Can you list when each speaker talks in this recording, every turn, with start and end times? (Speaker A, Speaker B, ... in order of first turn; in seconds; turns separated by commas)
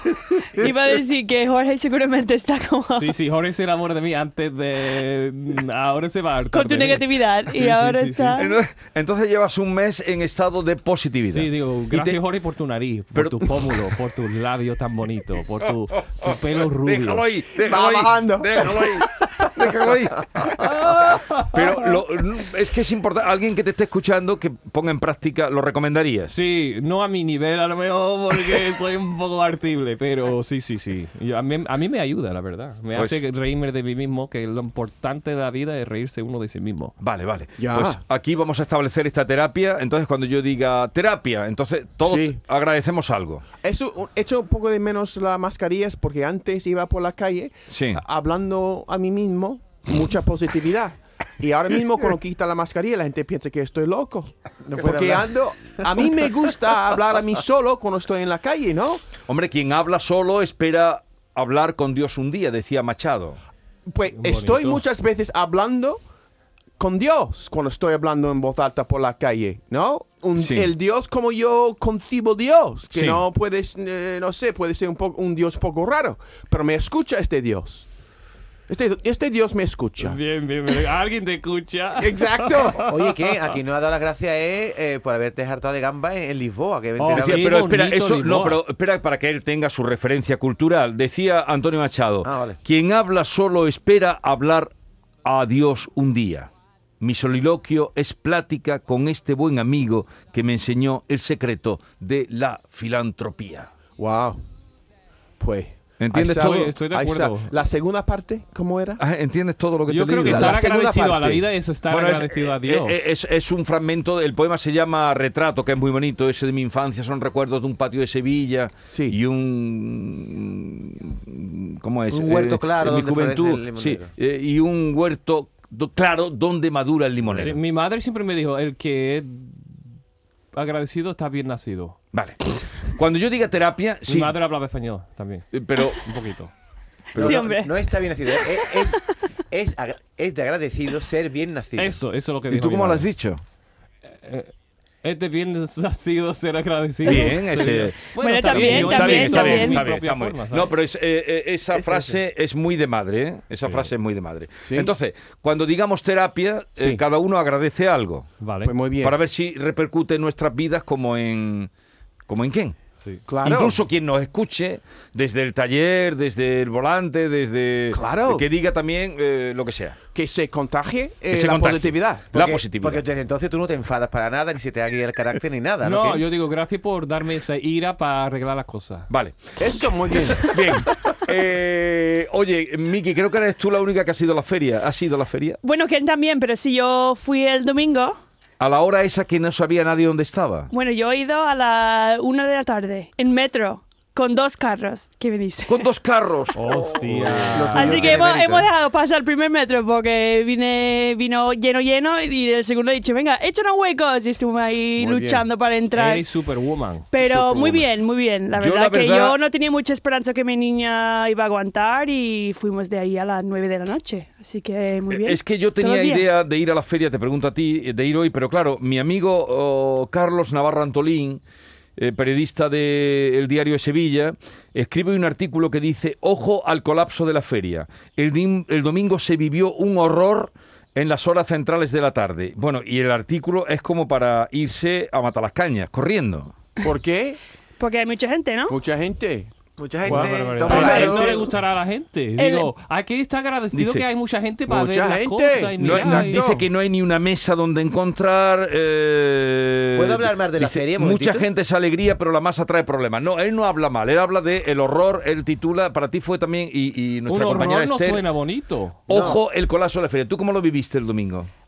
Speaker A: 0.5-3.1, Speaker B: 3.0-8.4, Speaker A: 6.5-8.5, Speaker C: 8.4-12.2, Speaker B: 11.3-17.2, Speaker C: 13.2-13.8, Speaker C: 16.1-26.3, Speaker D: 17.6-19.1, Speaker B: 20.6-22.0, Speaker B: 26.3-37.0, Speaker C: 32.9-33.2, Speaker C: 37.0-43.4, Speaker D: 37.6-38.0, Speaker D: 42.0-42.4, Speaker D: 43.6-59.0, Speaker C: 47.7-48.0, Speaker E: 54.6-55.4, Speaker C: 59.3-63.4, Speaker D: 63.9-66.0, Speaker B: 64.1-64.8, Speaker D: 66.8-77.9, Speaker C: 70.4-70.7, Speaker C: 72.9-73.2, Speaker D: 78.7-80.2, Speaker B: 80.0-83.4, Speaker D: 82.0-82.9, Speaker E: 82.8-87.6, Speaker B: 87.0-88.6, Speaker C: 87.1-94.7, Speaker E: 92.2-92.6, Speaker C: 95.2-96.5, Speaker C: 97.0-103.7, Speaker D: 104.0-104.4, Speaker D: 105.4-109.0, Speaker C: 106.0-106.7, Speaker B: 106.2-107.5, Speaker C: 109.0-110.6, Speaker B: 109.9-113.0, Speaker D: 110.2-111.4, Speaker C: 111.9-127.6, Speaker E: 122.1-124.1, Speaker B: 127.4-129.9, Speaker B: 130.5-132.0, Speaker C: 132.1-134.3, Speaker B: 134.1-136.5, Speaker C: 135.5-136.0, Speaker C: 137.1-137.5, Speaker A: 137.2-139.0, Speaker E: 137.2-142.0, Speaker B: 141.8-143.1, Speaker C: 142.5-143.4, Speaker B: 144.2-150.7, Speaker C: 147.1-158.3, Speaker A: 148.2-149.8, Speaker D: 151.7-152.2, Speaker B: 153.7-153.9, Speaker D: 154.6-154.9, Speaker D: 156.8-157.0, Speaker B: 158.4-158.7, Speaker D: 158.6-159.2, Speaker C: 159.0-161.7, Speaker C: 162.3-162.8, Speaker D: 163.3-163.8, Speaker C: 163.4-170.0, Speaker D: 167.9-168.5, Speaker D: 170.2-172.3, Speaker C: 171.3-173.0, Speaker E: 172.3-176.2, Speaker B: 175.8-179.1, Speaker C: 179.1-179.5, Speaker D: 179.6-180.5, Speaker C: 180.3-185.6, Speaker A: 185.6-188.2, Speaker C: 188.6-190.7, Speaker A: 190.7-195.8, Speaker C: 195.7-197.9, Speaker B: 196.6-198.1, Speaker E: 197.3-198.7, Speaker D: 197.8-198.1, Speaker A: 197.8-206.3, Speaker D: 205.0-205.4, Speaker B: 205.9-207.1, Speaker A: 207.1-216.3, Speaker C: 207.3-207.8, Speaker C: 208.6-209.4, Speaker C: 215.1-221.4, Speaker C: 222.0-236.5, Speaker D: 236.8-237.4, Speaker A: 237.8-238.8, Speaker D: 238.7-239.5, Speaker E: 239.8-241.3, Speaker B: 240.1-246.4, Speaker D: 240.1-241.5, Speaker A: 240.7-241.4, Speaker A: 242.4-242.7, Speaker C: 243.7-244.1, Speaker D: 244.7-246.7, Speaker C: 245.8-258.2, Speaker E: 249.9-251.5, Speaker B: 257.3-259.0, Speaker C: 259.1-261.5, Speaker E: 259.1-259.4